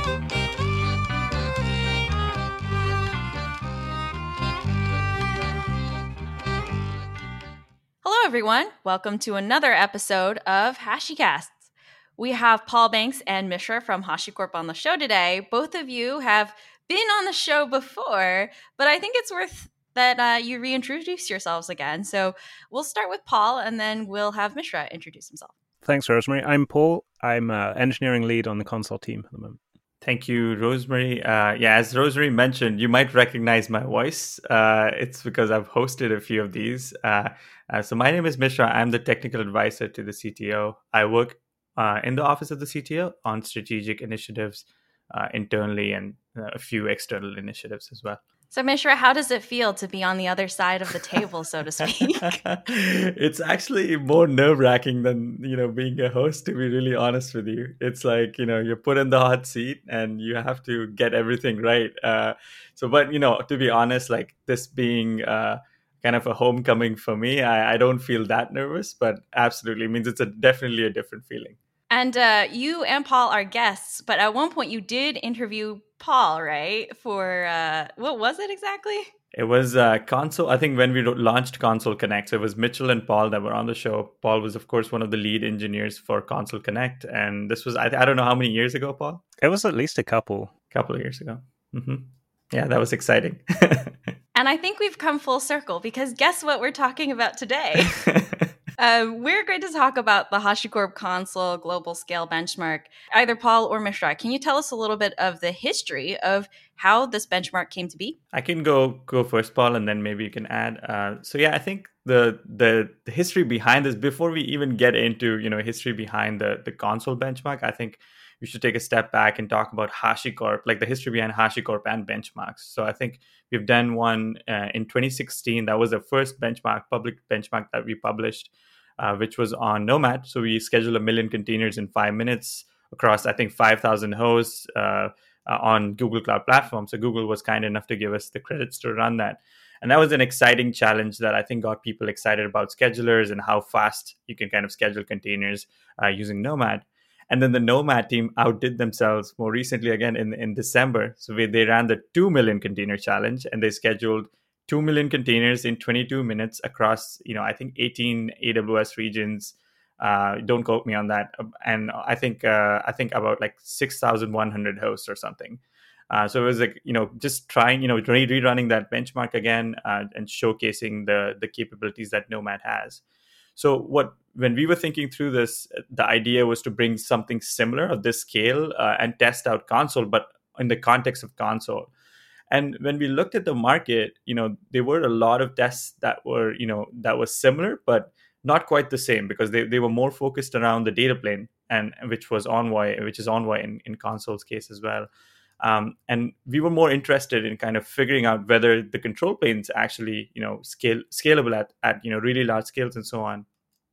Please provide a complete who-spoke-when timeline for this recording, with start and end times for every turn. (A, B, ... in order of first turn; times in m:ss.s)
0:08.0-0:11.6 A
0:12.2-0:25.5 A
0:25.8-0:29.6 B
0:30.0-0:48.2 C
0:48.5-0:52.4 A
0:52.4-1:11.6 C
1:11.9-1:19.1 A
1:19.3-1:29.2 C
1:29.4-1:30.5 B
1:30.7-1:33.9 C
1:34.3-1:37.9 A
1:37.9-1:38.4 C
1:38.8-1:48.2 A
1:48.3-2:53.0 C
2:53.6-3:01.9 C
3:02.5-3:15.1 C
3:15.6-3:23.5 C